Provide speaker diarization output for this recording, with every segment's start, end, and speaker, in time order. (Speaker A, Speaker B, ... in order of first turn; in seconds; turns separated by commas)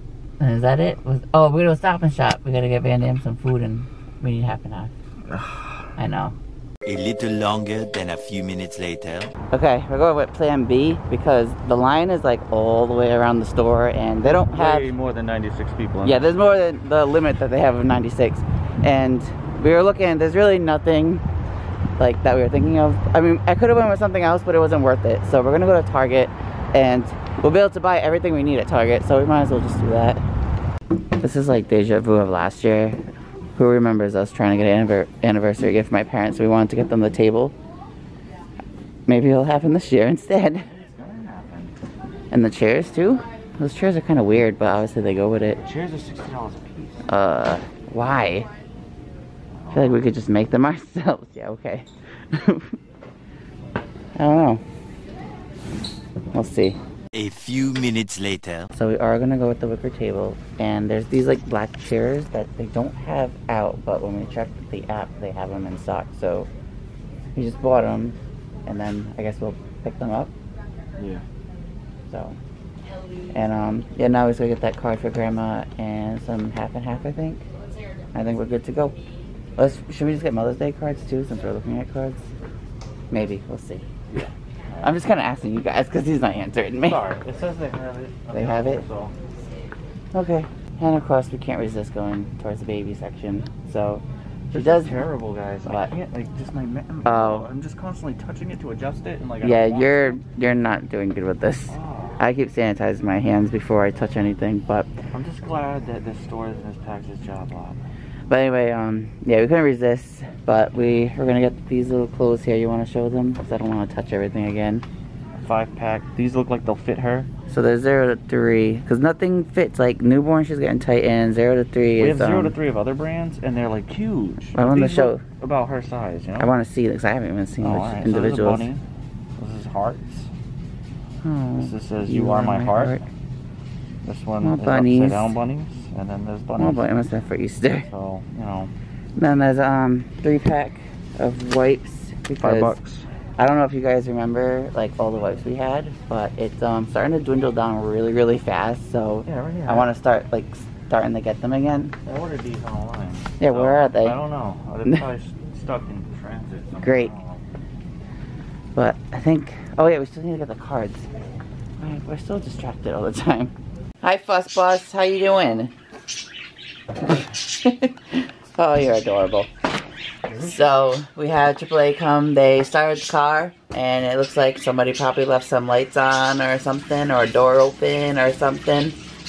Speaker A: 0.4-4.9, Speaker B: 5.3-5.8, Speaker A: 6.0-6.3, Speaker C: 6.8-9.3, Speaker A: 9.5-14.9, Speaker B: 14.2-16.2, Speaker A: 16.0-21.2, Speaker A: 22.0-30.2, Speaker A: 31.2-33.0, Speaker A: 33.5-37.5, Speaker A: 39.1-40.7, Speaker B: 40.5-41.7, Speaker A: 42.3-45.6, Speaker B: 45.6-47.1, Speaker A: 47.1-48.5, Speaker B: 49.5-50.0, Speaker A: 49.7-52.7, Speaker A: 54.1-54.6, Speaker A: 56.3-56.8, Speaker C: 57.1-58.7, Speaker A: 58.7-66.5, Speaker A: 67.3-70.3, Speaker B: 71.0-71.2, Speaker A: 72.1-72.4, Speaker A: 73.3-77.4, Speaker A: 78.1-78.9, Speaker A: 79.6-82.3, Speaker A: 83.1-83.9, Speaker B: 84.1-84.9, Speaker A: 84.8-87.0, Speaker B: 86.8-89.1, Speaker A: 88.3-88.8, Speaker A: 90.1-95.1, Speaker B: 94.5-100.2, Speaker A: 97.0-97.5, Speaker A: 99.4-104.9, Speaker B: 101.7-102.2, Speaker B: 105.1-107.8, Speaker A: 108.3-114.8, Speaker B: 115.4-117.3, Speaker A: 117.5-122.5, Speaker B: 122.0-126.5, Speaker A: 124.5-125.2, Speaker A: 126.4-128.7, Speaker B: 127.6-128.8, Speaker B: 129.4-130.3, Speaker A: 131.2-133.0, Speaker B: 131.6-133.0, Speaker B: 134.0-136.9, Speaker A: 134.4-135.3, Speaker A: 136.6-137.9, Speaker B: 137.9-138.7, Speaker A: 139.2-142.8, Speaker B: 142.4-143.1, Speaker A: 143.4-151.9, Speaker B: 149.2-149.9, Speaker B: 152.0-157.4, Speaker A: 153.4-154.2, Speaker A: 156.8-157.1, Speaker A: 158.7-161.1, Speaker A: 161.8-165.7, Speaker A: 167.2-169.5, Speaker B: 170.2-170.6, Speaker A: 170.4-179.0